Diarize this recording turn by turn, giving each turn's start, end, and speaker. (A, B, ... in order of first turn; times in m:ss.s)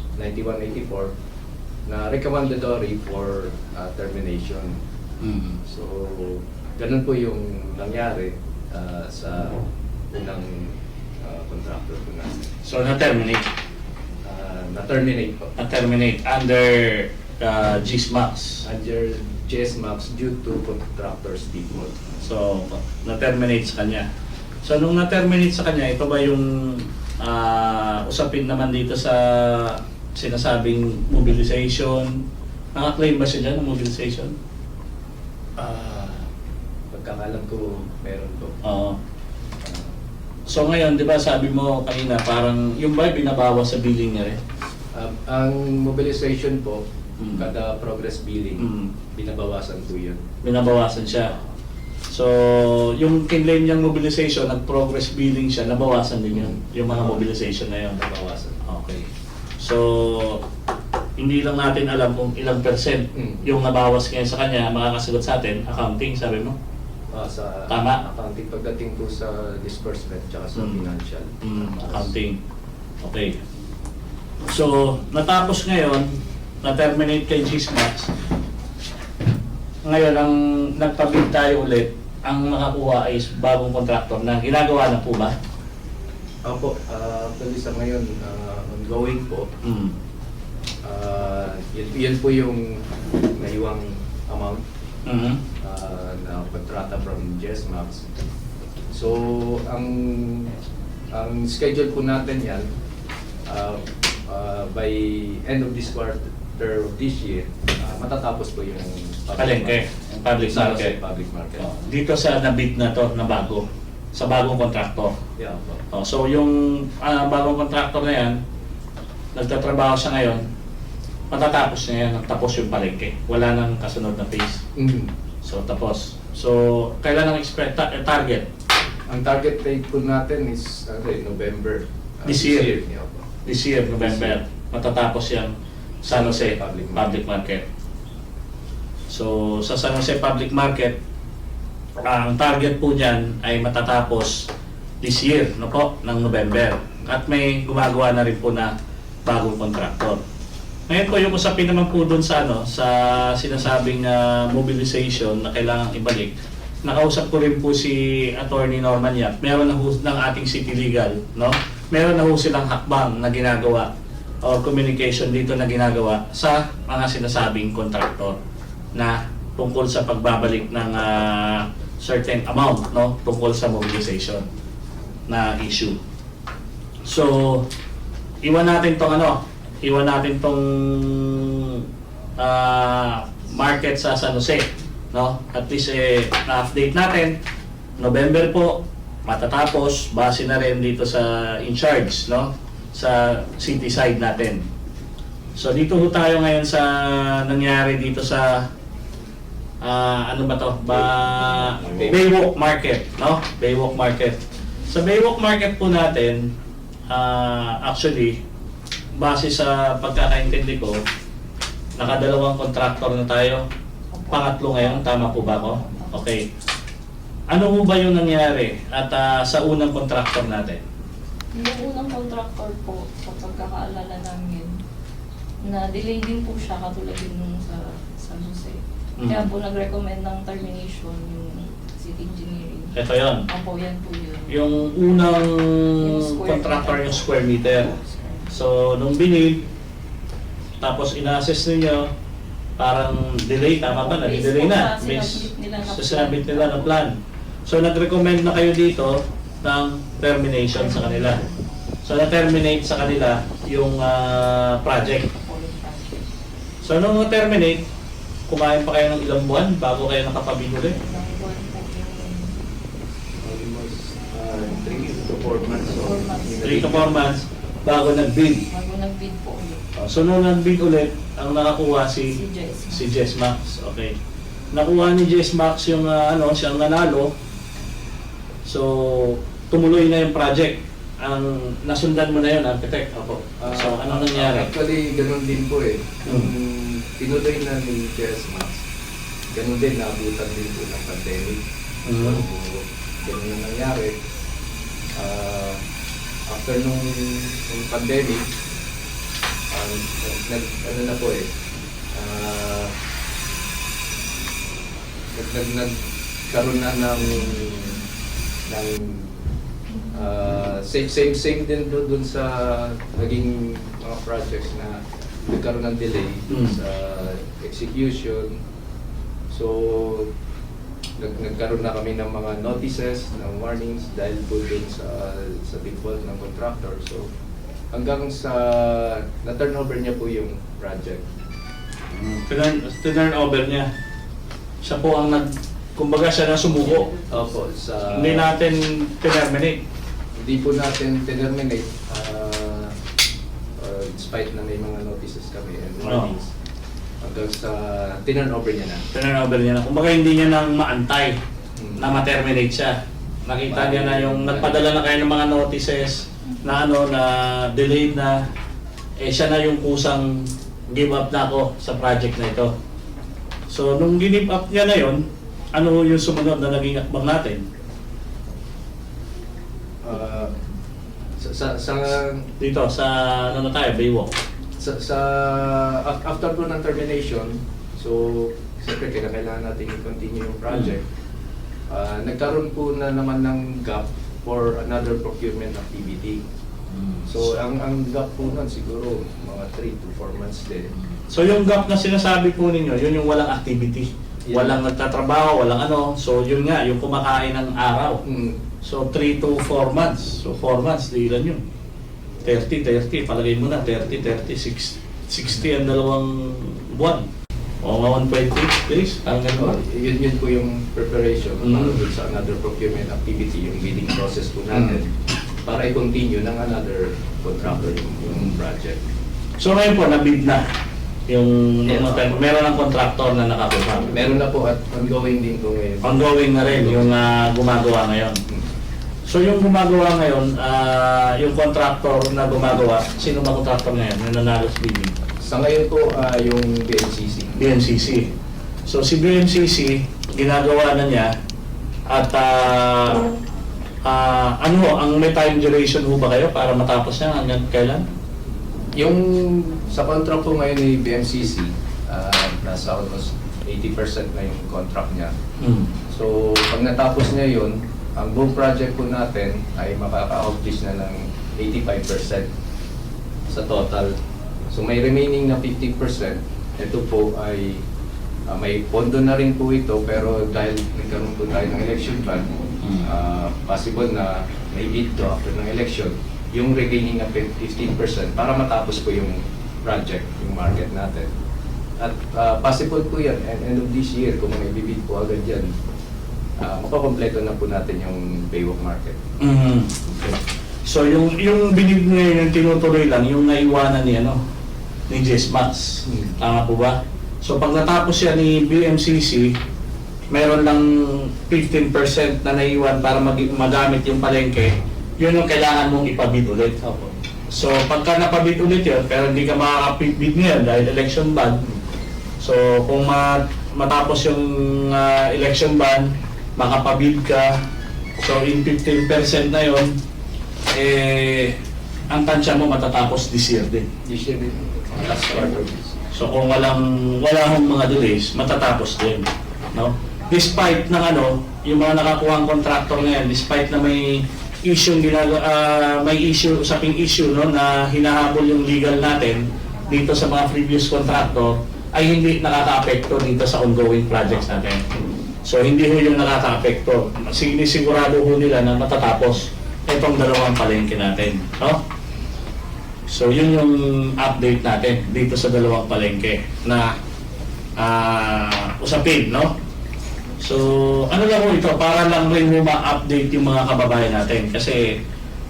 0:00.2-0:01.1 A
0:01.9-0:04.8 A
0:05.2-0:05.6 B
0:05.7-0:09.6 A
0:10.1-0:12.5 A
0:12.6-0:13.5 B
0:14.2-0:15.5 A
0:15.6-0:18.7 B
0:18.6-0:22.0 A
0:22.2-0:24.1 B
0:24.6-0:32.2 B
0:32.8-0:34.3 B
0:35.6-0:36.3 A
0:36.9-0:38.6 A
0:38.6-0:39.0 B
0:39.6-0:39.9 A
0:40.5-0:44.4 B
0:44.9-0:46.8 A
0:47.2-0:47.4 B
0:47.4-0:50.2 A
0:48.6-0:48.9 B
0:50.4-0:51.3 B
0:52.1-0:58.0 B
0:56.3-0:57.2 A
0:57.9-0:58.6 A
0:58.6-0:59.1 B
0:59.6-1:00.4 B
1:01.2-1:06.6 B
1:03.1-1:03.5 A
1:07.1-1:12.1 A
1:07.7-1:08.0 B
1:10.6-1:10.8 B
1:11.4-1:12.4 B
1:13.0-1:13.4 B
1:14.5-1:16.1 B
1:16.6-1:18.1 B
1:19.9-1:25.3 B
1:26.4-1:29.5 A
1:29.6-1:29.9 B
1:30.8-1:34.6 A
1:35.1-1:35.4 B
1:35.6-1:38.0 A
1:38.9-1:40.5 A
1:41.1-1:42.7 A
1:43.5-1:49.8 A
1:49.4-1:51.0 B
1:50.5-1:51.7 A
1:51.6-1:55.2 B
1:55.4-1:55.9 A
1:55.9-1:58.4 B
1:59.3-2:00.4 B
2:01.3-2:04.6 B
2:04.8-2:05.1 A
2:05.4-2:08.4 B
2:09.1-2:13.2 A
2:12.2-2:12.7 B
2:13.4-2:17.6 B
2:14.0-2:14.4 A
2:16.1-2:17.2 A
2:19.1-2:21.0 B
2:22.0-2:24.5 B
2:25.0-2:28.7 B
2:29.2-2:30.2 B
2:30.9-2:43.9 B
2:44.4-2:48.4 B
2:48.9-2:54.4 B
2:55.3-2:56.0 B
2:57.1-2:57.6 B
2:58.4-3:01.8 B
3:02.4-3:07.4 B
3:08.0-3:14.6 B
3:15.6-3:18.6 B
3:19.8-3:24.4 B
3:20.9-3:22.2 A
3:24.9-3:26.4 B
3:27.1-3:28.3 B
3:29.1-3:31.0 B
3:32.0-3:33.6 B
3:34.1-3:36.2 C
3:34.3-3:36.4 B
3:37.5-3:40.8 B
3:41.5-3:44.8 C
3:45.6-3:52.9 C
3:49.2-3:49.5 B
3:52.9-3:53.4 B
3:53.5-3:54.7 C
3:54.5-3:57.9 B
3:56.0-3:58.5 C
3:58.5-3:59.6 B
4:00.8-4:02.1 B
4:02.8-4:07.1 B
4:03.8-4:07.0 C
4:07.6-4:11.4 B
4:10.7-4:11.7 C
4:12.0-4:15.3 B
4:15.2-4:16.2 C
4:16.8-4:17.8 B
4:18.5-4:21.0 B
4:20.9-4:22.6 C
4:23.4-4:27.3 A
4:25.9-4:26.9 C
4:26.6-4:28.7 B
4:28.7-4:29.8 C
4:30.0-4:32.4 B
4:32.3-4:33.2 C
4:32.9-4:34.1 B
4:34.7-4:37.3 B
4:38.6-4:44.7 B
4:43.6-4:48.8 A
4:46.2-4:46.5 B
4:49.5-4:51.6 A
4:52.1-4:52.4 B
4:52.2-4:54.2 A
4:55.1-4:55.8 A
4:56.5-4:58.4 A
4:59.7-5:01.5 A
5:02.1-5:02.9 A
5:05.3-5:05.9 A
5:06.5-5:08.0 A
5:08.7-5:09.4 A
5:10.1-5:18.6 A
5:16.5-5:16.8 B
5:19.5-5:20.3 A
5:21.2-5:27.3 A
5:27.9-5:31.2 A
5:32.1-5:33.9 B
5:34.8-5:37.1 B
5:37.0-5:37.4 C
5:37.3-5:38.5 A
5:38.1-5:39.8 B
5:40.4-5:42.9 A
5:43.8-5:46.5 A
5:46.0-5:46.3 B
5:47.2-5:49.0 A
5:49.1-5:51.4 B
5:51.8-5:52.2 A
5:52.0-5:58.4 B
5:53.7-5:54.8 A
5:59.2-6:02.7 B
6:03.7-6:05.2 B
6:05.7-6:07.6 B
6:10.0-6:10.6 A
6:11.4-6:12.5 A
6:12.6-6:14.3 B
6:14.8-6:21.0 A
6:21.9-6:26.4 A
6:26.9-6:27.4 B
6:27.2-6:30.9 A
6:31.2-6:38.2 B
6:34.4-6:34.8 A
6:38.2-6:38.6 A
6:38.8-6:41.6 B
6:42.4-6:47.2 B
6:47.8-6:49.8 B
6:49.6-6:55.1 A
6:51.6-6:52.0 B
6:55.6-6:59.0 A
6:59.6-7:00.6 B
7:01.3-7:04.2 B
7:01.9-7:02.3 A
7:04.1-7:07.1 A
7:06.0-7:08.4 B
7:09.2-7:15.1 B
7:15.4-7:17.5 A
7:17.6-7:18.3 B
7:18.8-7:21.3 B
7:22.1-7:23.3 B
7:24.1-7:28.1 B
7:28.9-7:35.3 A
7:35.6-7:35.9 B
7:36.1-7:42.5 A
7:43.5-7:44.1 A
7:44.7-7:47.8 A
7:48.5-7:52.5 A
7:53.0-8:01.3 A
8:02.0-8:05.7 A
8:06.6-8:09.2 A
8:09.4-8:14.4 B
8:15.1-8:19.5 B
8:16.1-8:16.3 A
8:20.3-8:31.7 B
8:32.4-8:37.6 B
8:38.2-8:39.9 B
8:40.7-8:41.5 B
8:42.1-8:43.9 B
8:44.0-8:45.9 A
8:46.1-9:04.8 B
9:05.4-9:11.8 B
9:13.1-9:16.9 B
9:17.8-9:19.5 B
9:20.4-9:25.0 B